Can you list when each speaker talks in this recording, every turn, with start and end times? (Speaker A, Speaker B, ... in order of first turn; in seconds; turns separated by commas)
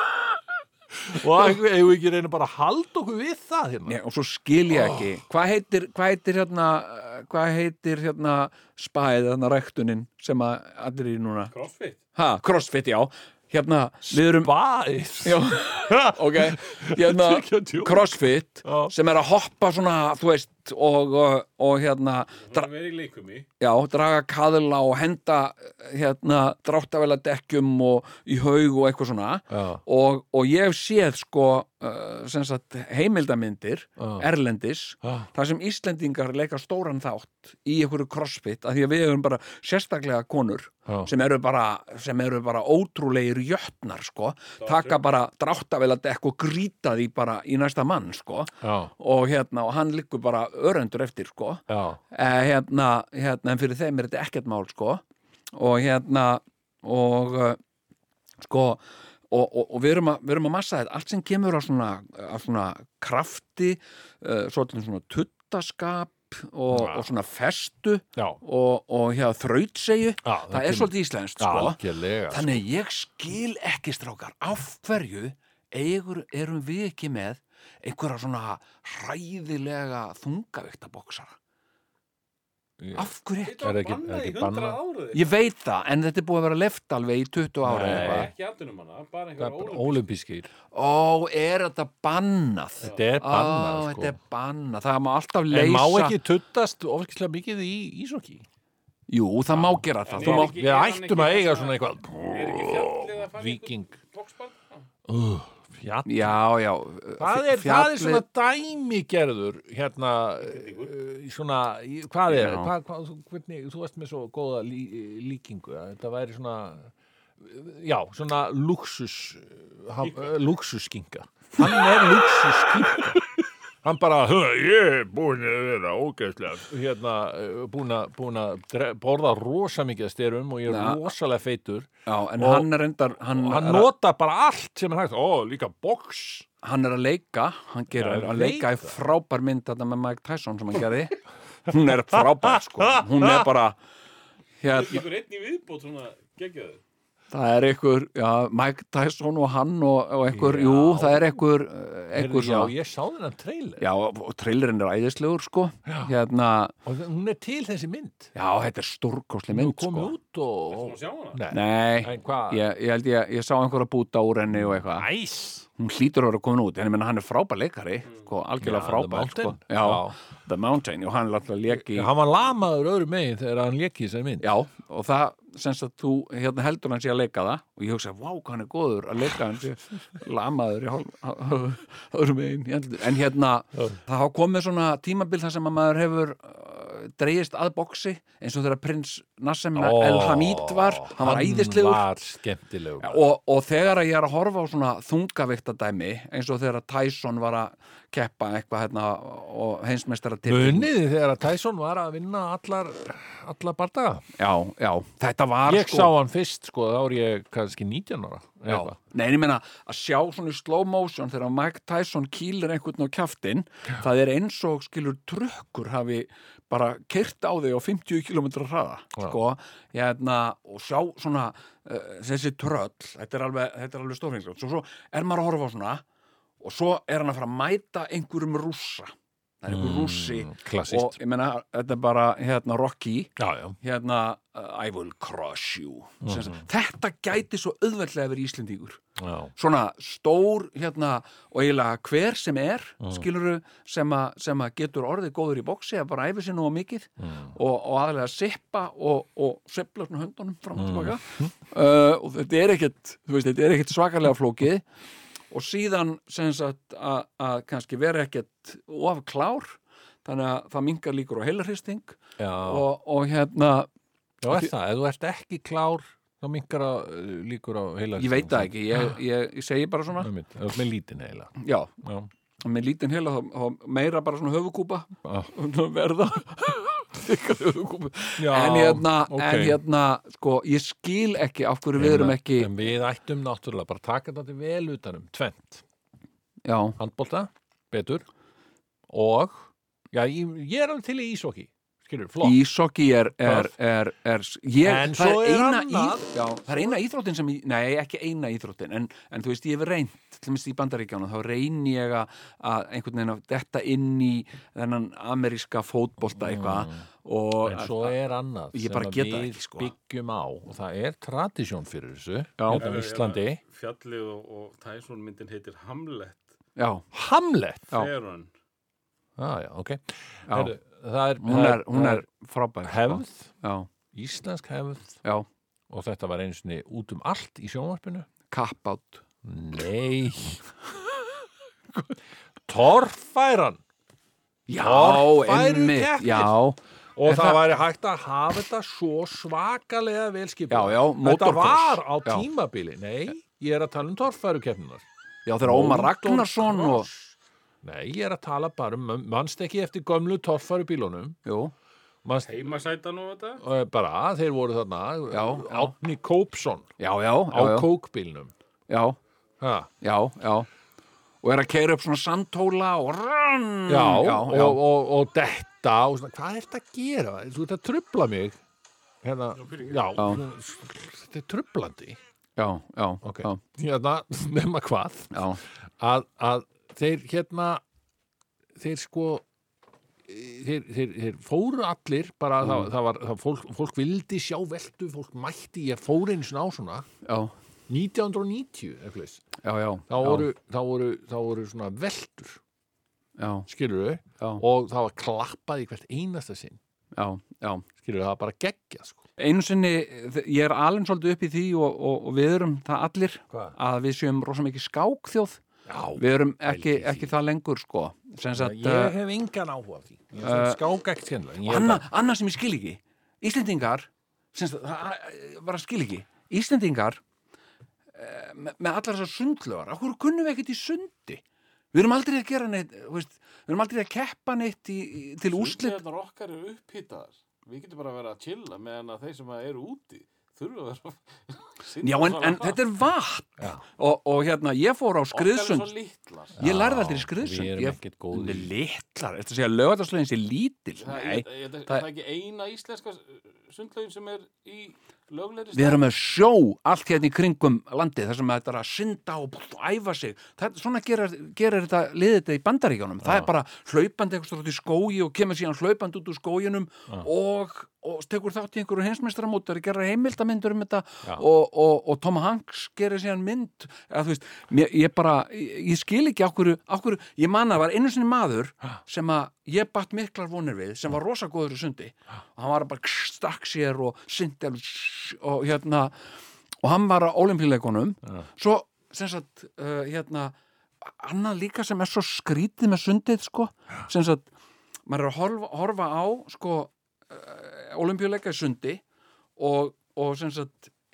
Speaker A: 0.9-4.0, Speaker B: 3.9-11.5, Speaker A: 4.7-5.1, Speaker C: 11.5-12.0, Speaker B: 12.2-14.5, Speaker A: 14.1-18.9, Speaker B: 15.2-22.7, Speaker C: 22.4-23.5, Speaker B: 23.6-57.6, Speaker A: 29.5-29.8, Speaker A: 34.0-34.3, Speaker A: 35.0-35.3, Speaker C: 44.6-45.0, Speaker A: 48.6-48.9, Speaker A: 51.7-52.0, Speaker B: 58.4-81.4, Speaker A: 66.7-67.1, Speaker A: 70.2-72.7, Speaker A: 82.8-84.8, Speaker B: 83.0-83.7, Speaker C: 83.4-85.3, Speaker B: 85.1-88.3, Speaker A: 87.6-88.3, Speaker C: 87.8-90.1, Speaker A: 89.4-90.5, Speaker B: 90.7-96.2, Speaker A: 92.8-94.2, Speaker C: 92.8-93.2, Speaker A: 95.5-98.5, Speaker B: 99.1-100.5, Speaker A: 99.5-104.0, Speaker C: 100.1-104.9, Speaker A: 105.1-106.4, Speaker B: 106.0-108.2, Speaker A: 107.2-136.5, Speaker C: 110.4-110.9, Speaker B: 112.3-112.7, Speaker B: 130.7-131.0, Speaker B: 132.1-133.9, Speaker B: 136.6-143.8, Speaker A: 137.9-138.9, Speaker A: 142.8-143.5, Speaker B: 144.6-145.1, Speaker C: 144.7-146.8, Speaker B: 147.3-152.7, Speaker A: 150.3-151.4, Speaker A: 152.1-153.9, Speaker B: 153.8-156.8, Speaker A: 155.9-156.1, Speaker A: 156.8-158.3, Speaker B: 158.3-160.2, Speaker A: 159.5-162.6, Speaker C: 160.7-161.4, Speaker B: 161.5-165.1, Speaker A: 164.5-165.7, Speaker B: 165.8-172.1, Speaker A: 168.6-170.2, Speaker A: 171.7-174.5, Speaker B: 174.4-192.1, Speaker A: 189.8-193.2, Speaker B: 193.0-200.9, Speaker A: 200.5-204.3, Speaker B: 204.4-206.1, Speaker A: 205.7-209.0, Speaker B: 208.7-226.0, Speaker B: 226.6-239.0, Speaker A: 229.7-231.2, Speaker A: 233.4-233.8, Speaker A: 236.2-236.6, Speaker A: 239.2-239.5, Speaker B: 239.6-254.8, Speaker A: 243.0-243.3, Speaker A: 247.2-247.5, Speaker A: 250.8-251.5, Speaker B: 255.5-263.9, Speaker A: 262.4-262.9, Speaker A: 264.4-269.2, Speaker B: 268.2-270.3, Speaker A: 270.2-272.3, Speaker B: 271.6-271.9, Speaker B: 272.6-282.7, Speaker A: 275.2-275.5, Speaker A: 278.4-279.8, Speaker A: 282.0-285.8, Speaker B: 286.6-287.0, Speaker A: 287.0-288.3, Speaker A: 289.1-292.6, Speaker B: 292.4-308.2, Speaker A: 293.4-293.7, Speaker A: 294.8-296.9, Speaker A: 306.4-307.1, Speaker A: 307.6-313.6, Speaker B: 308.7-309.9, Speaker B: 312.6-312.9, Speaker C: 312.7-316.4, Speaker B: 316.8-317.1, Speaker A: 317.1-317.9, Speaker C: 317.9-318.5, Speaker A: 319.4-322.3, Speaker B: 320.5-320.8, Speaker B: 321.4-323.9, Speaker A: 322.8-323.5, Speaker A: 324.1-325.2, Speaker A: 325.9-328.3, Speaker B: 328.5-329.2, Speaker A: 329.4-330.7, Speaker A: 332.7-333.8, Speaker B: 334.7-337.7, Speaker A: 334.8-336.6, Speaker A: 337.2-345.1, Speaker B: 340.7-342.5, Speaker B: 345.5-347.1, Speaker A: 345.6-351.4, Speaker B: 351.4-351.7, Speaker A: 352.2-352.7, Speaker C: 352.4-353.6, Speaker A: 353.6-356.9, Speaker B: 355.3-355.9, Speaker B: 357.0-357.9, Speaker A: 357.5-358.5, Speaker B: 358.9-359.2, Speaker A: 359.6-359.9, Speaker B: 360.0-360.7, Speaker B: 361.4-364.8, Speaker A: 363.9-368.6, Speaker A: 369.2-372.2, Speaker B: 370.2-370.4, Speaker B: 372.6-373.6, Speaker A: 373.2-375.4, Speaker B: 375.3-375.6, Speaker A: 376.0-377.8, Speaker A: 378.8-379.4, Speaker A: 380.2-387.1, Speaker B: 382.6-382.9, Speaker B: 387.2-387.5, Speaker A: 387.9-389.4, Speaker B: 389.6-390.5, Speaker A: 390.1-392.6, Speaker B: 393.4-393.7, Speaker A: 393.7-396.8, Speaker B: 397.1-397.9, Speaker A: 398.0-399.2, Speaker B: 399.4-405.6, Speaker A: 405.9-407.4, Speaker B: 406.2-409.2, Speaker A: 408.6-412.1, Speaker B: 410.4-410.8, Speaker B: 411.6-417.2, Speaker B: 418.1-421.4, Speaker B: 421.9-426.0, Speaker C: 425.5-432.8, Speaker B: 432.0-435.9, Speaker C: 435.3-436.6, Speaker A: 436.6-438.7, Speaker B: 436.6-442.1, Speaker C: 441.0-446.0, Speaker B: 445.7-476.3, Speaker A: 453.2-453.5, Speaker B: 476.8-484.5, Speaker B: 485.1-489.0, Speaker B: 489.6-490.9